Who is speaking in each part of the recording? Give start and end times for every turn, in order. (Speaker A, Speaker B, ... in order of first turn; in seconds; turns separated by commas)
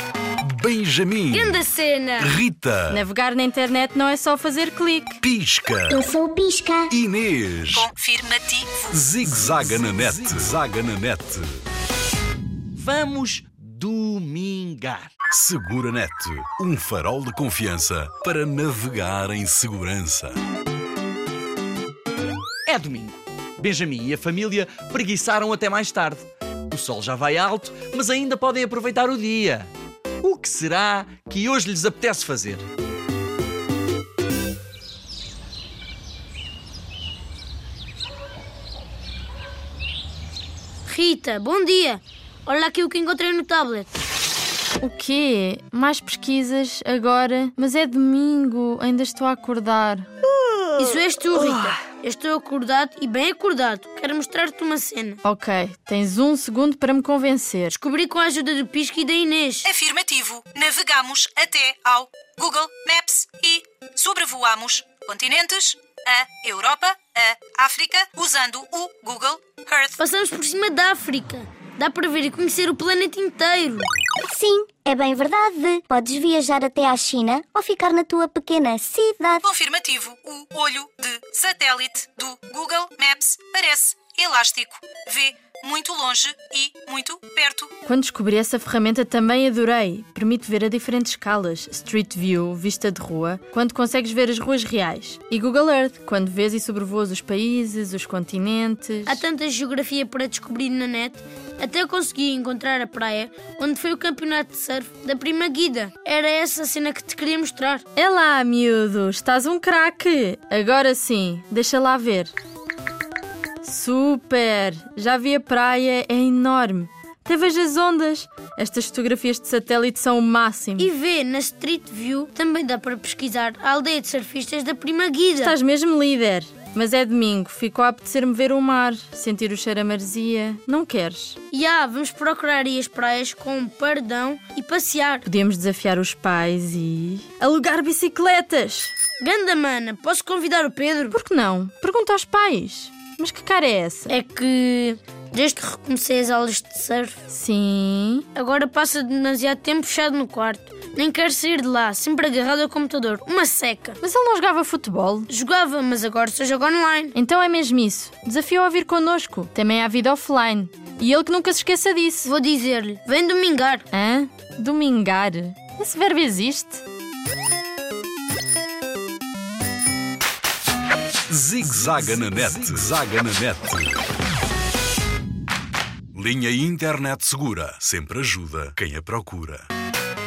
Speaker A: 0.4-1.6, Speaker B: 1.3-2.4, Speaker A: 2.2-3.0, Speaker C: 2.9-5.2, Speaker A: 5.2-6.0, Speaker D: 5.9-6.9, Speaker A: 6.9-7.9, Speaker E: 7.7-8.8, Speaker A: 8.9-11.6, Speaker F: 12.8-15.1, Speaker A: 15.3-20.4, Speaker F: 22.7-29.7, Speaker F: 30.2-32.6, Speaker B: 40.9-43.9, Speaker C: 44.8-50.1, Speaker B: 50.8-55.2, Speaker C: 55.2-57.8, Speaker B: 57.7-59.7, Speaker E: 59.8-69.9, Speaker B: 70.0-73.9, Speaker D: 74.2-79.5, Speaker E: 79.4-87.7, Speaker C: 87.8-99.2, Speaker B: 99.1-107.8, Speaker C: 108.0-112.3, Speaker C: 113.6-120.9, Speaker B: 120.8-125.6, Speaker C: 125.4-131.4, Speaker B: 131.5-135.3, Speaker C: 135.2-138.9, Speaker B: 139.2-141.2, Speaker C: 141.1-144.2, Speaker B: 144.1-147.2, Speaker C: 147.3-148.3, Speaker B: 148.3-154.0, Speaker C: 154.0-155.3, Speaker B: 155.3-157.1, Speaker C: 157.2-162.3, Speaker B: 162.2-163.8, Speaker C: 163.9-166.8, Speaker A: 171.3-174.0, Speaker A: 176.1-179.7